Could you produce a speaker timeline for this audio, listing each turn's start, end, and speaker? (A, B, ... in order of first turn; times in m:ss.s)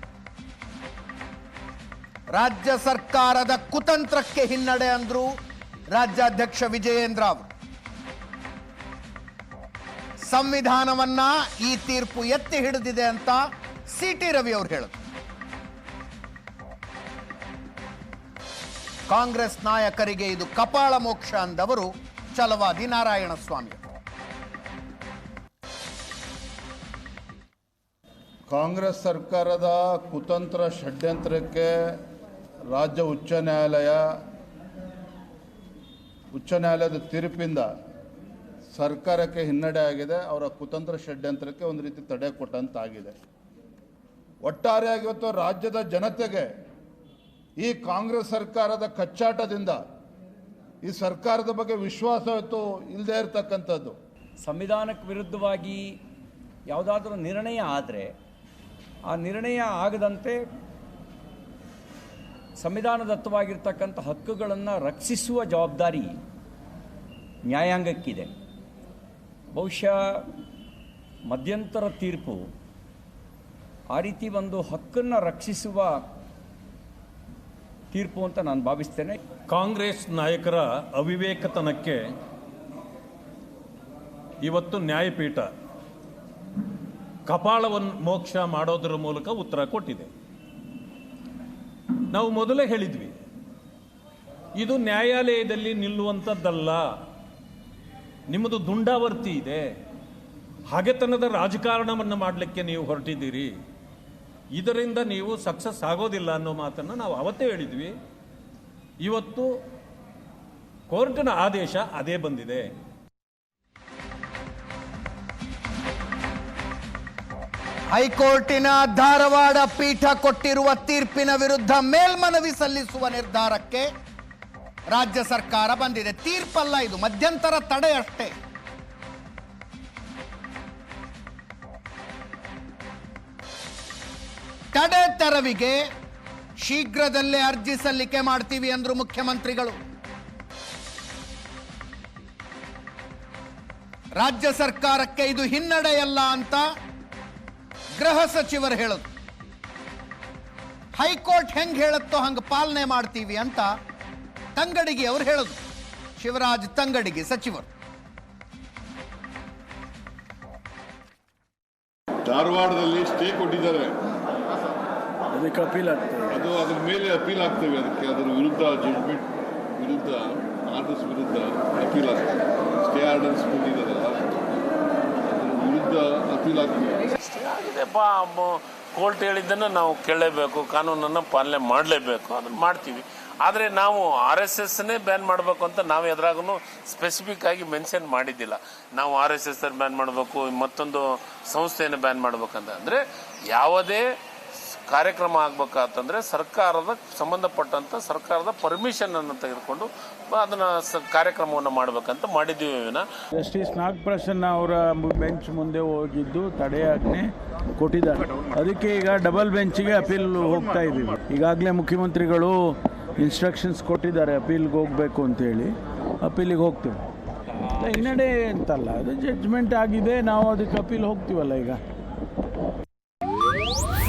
0:02.3-0:05.4 A
0:05.9-0:07.5 A
0:10.2-0:15.0 A
0:19.1-0:23.8 A
0:28.5-0:32.0 B
0:32.7-0:34.1 B
0:36.3-0:37.7 B
0:38.7-0:43.1 B
0:44.4-0:46.5 B
0:47.6-0:49.8 B
0:50.8-0:54.0 B
0:54.4-0:56.0 C
0:56.7-0:58.2 C
0:59.1-1:00.5 C
1:02.6-1:06.2 C
1:07.5-1:08.3 C
1:09.5-1:10.3 C
1:11.3-1:12.5 C
1:13.9-1:16.0 C
1:17.9-1:19.2 C
1:19.5-1:22.1 D
1:24.4-1:25.5 D
1:27.3-1:30.1 D
1:32.1-1:33.2 D
1:34.6-1:36.9 D
1:38.3-1:39.7 D
1:40.7-1:43.6 D
1:44.5-1:47.9 D
1:49.0-1:49.5 D
1:50.9-1:52.7 D
1:57.9-2:03.9 A
2:04.9-2:08.4 A
2:14.7-2:15.8 A
2:16.6-2:19.8 A
2:24.2-2:26.7 A
2:28.0-2:29.1 A
2:31.0-2:33.7 A
2:34.6-2:35.6 A
2:36.2-2:37.7 A
2:42.3-2:43.9 E
2:45.4-2:46.4 F
2:46.3-2:54.3 E
2:55.3-2:57.1 E
2:57.2-3:14.0 G
3:14.6-3:23.1 G
3:23.3-3:37.0 F
3:37.8-3:41.8 F